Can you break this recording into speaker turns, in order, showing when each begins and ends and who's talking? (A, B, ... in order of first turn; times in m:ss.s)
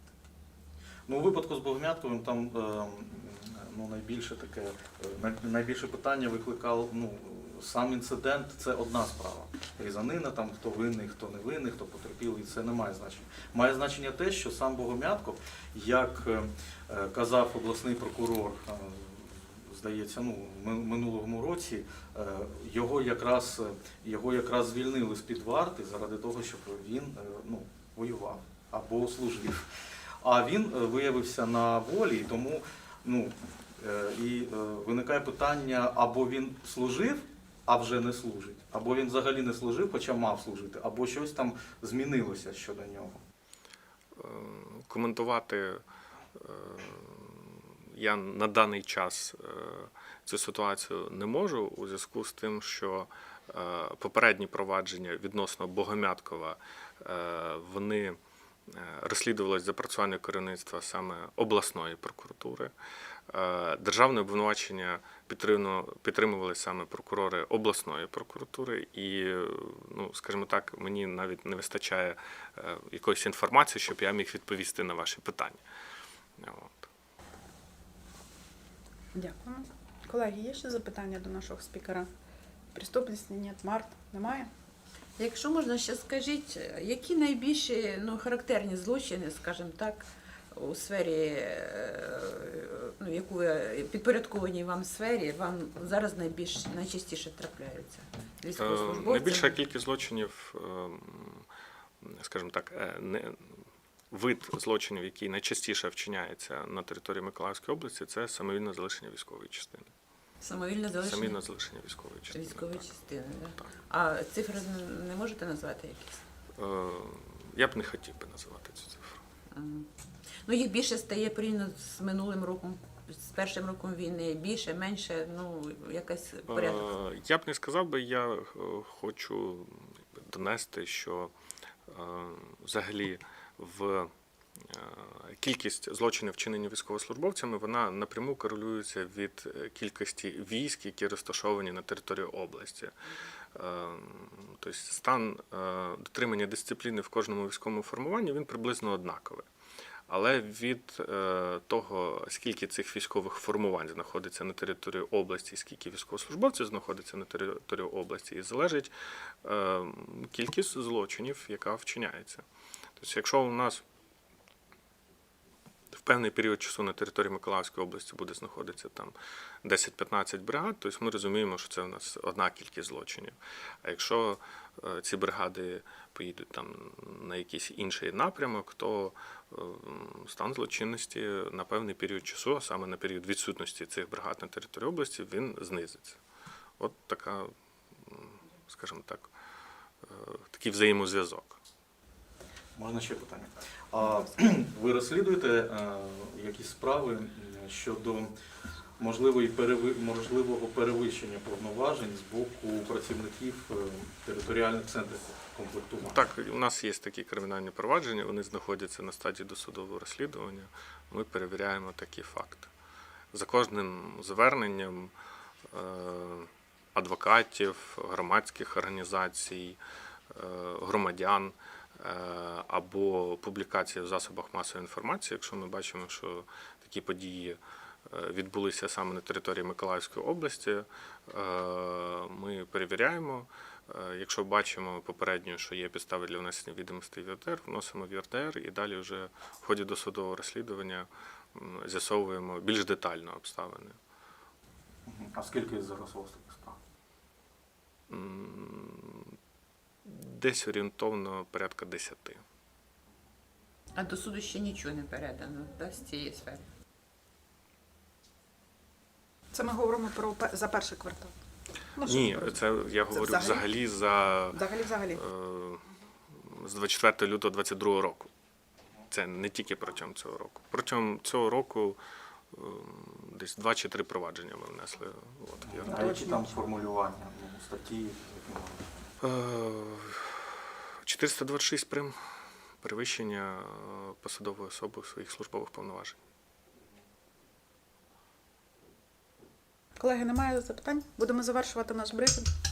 0:01.1-0:43.2 A
0:44.2-0:45.8 B
0:46.4-1:02.7 B
1:03.3-1:15.6 B
1:16.4-1:16.9 B
1:19.2-1:22.1 C
1:22.7-1:24.5 C
1:25.2-1:39.6 D
1:38.6-1:41.5 B
1:42.0-1:49.9 B
1:50.4-1:51.4 D
1:51.0-1:53.0 B
1:52.3-1:56.2 D
1:56.6-1:59.2 B
1:59.5-1:59.9 D
2:00.4-2:06.9 D
2:06.5-2:11.3 B
2:11.9-2:22.9 B
2:23.5-2:29.5 B
2:30.1-2:38.9 B
2:39.4-2:42.4 B
2:43.0-2:43.8 B
2:45.9-3:06.2 B
3:06.8-3:09.3 B
3:10.0-3:11.6 B
3:12.8-3:18.3 A
3:19.0-3:26.2 A
3:26.0-3:32.7 B
3:33.3-3:35.1 B
3:35.7-3:39.8 B
3:40.3-4:04.0 B
4:05.1-4:06.8 A
4:08.1-4:09.4 B
4:10.0-4:12.4 B
4:14.0-4:16.6 D
4:19.5-4:21.3 C
4:22.0-4:22.6 C
4:22.0-4:24.6 B
4:23.1-4:23.7 C
4:24.5-4:25.2 C
4:25.1-4:28.3 B
4:29.1-4:32.0 B
4:32.5-4:36.2 B
4:35.6-4:38.9 A
4:35.9-4:36.4 C
4:39.2-4:40.5 B
4:41.0-4:42.2 B
4:42.8-4:46.2 B
4:50.0-4:52.5 C